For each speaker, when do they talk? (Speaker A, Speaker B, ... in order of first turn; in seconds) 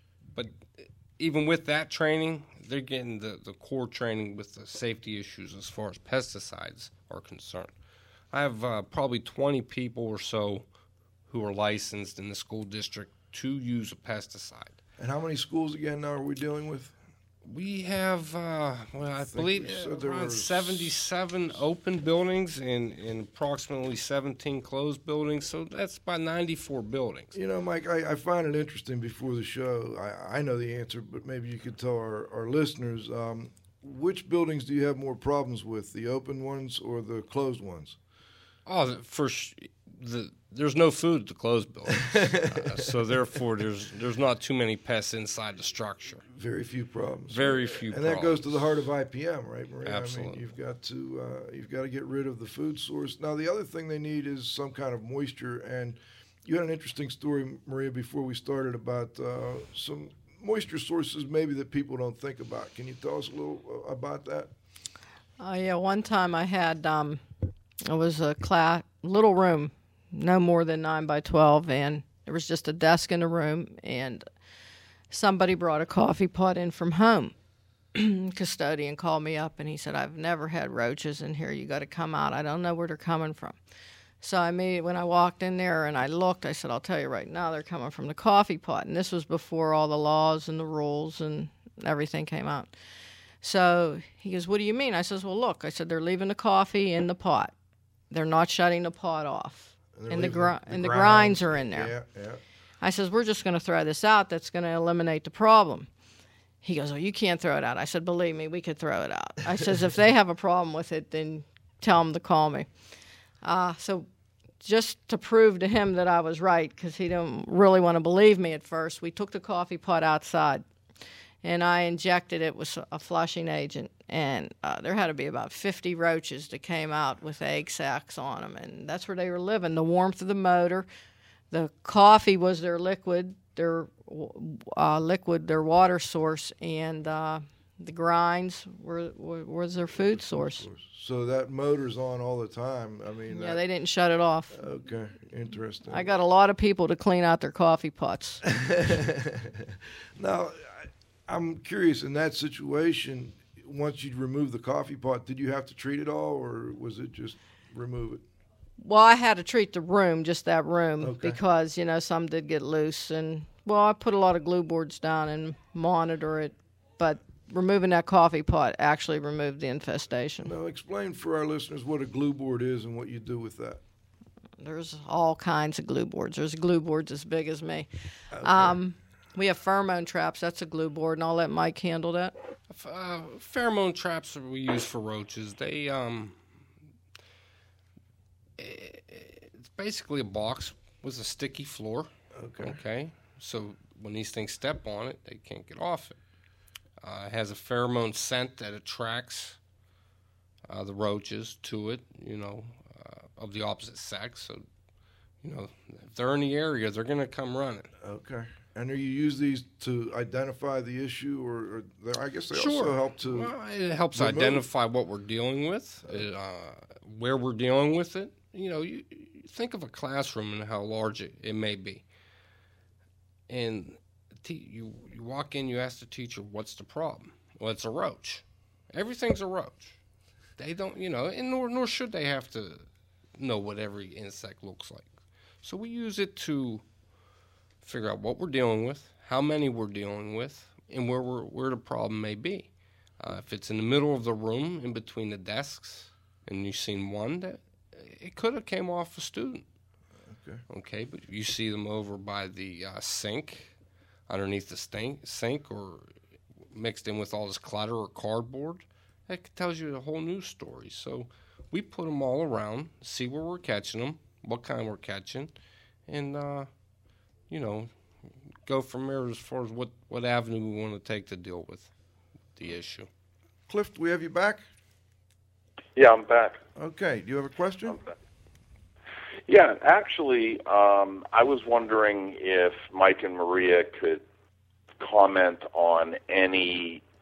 Speaker A: 0.3-7.7, 8.3-10.7, 11.3-14.8, 17.4-27.3, 38.7-46.2, 47.3-48.8, 49.8-50.4, 182.7-186.4, 188.6-196.2, 197.0-199.6, 200.7-204.6, 205.4-207.9, 212.5-222.0, 223.5-230.0, 230.6-232.8, 233.4-235.1, 235.6-236.8, 237.8-249.6, 250.7-253.7, 254.3-256.1, 256.7-265.5, 266.1-266.7, 267.5-267.9, 268.6-271.9, 272.6-273.1
Speaker B: 15.0-16.9, 19.2-21.0, 27.3-38.0, 41.9-43.0, 46.3-64.5, 99.9-102.4, 140.0-143.6, 144.5-146.1, 148.4-158.2, 161.0-161.4, 170.4-173.8, 178.3-178.8, 192.3-192.8, 208.0-213.5, 214.1-214.7, 250.3-250.6, 273.7-274.6, 276.8-278.0
Speaker C: 65.4-67.2, 67.8-74.2, 75.1-77.3, 77.9-83.6, 84.2-92.7, 93.4-97.5, 98.1-101.9, 102.8-105.9, 106.6-112.7, 113.4-114.1, 114.6-120.6, 121.4-130.9, 131.5-140.7, 143.3-144.6, 145.9-148.4, 158.8-170.5, 174.6-177.9, 178.4-182.3
Speaker D: 275.9-276.6, 279.5-284.2, 285.0-287.0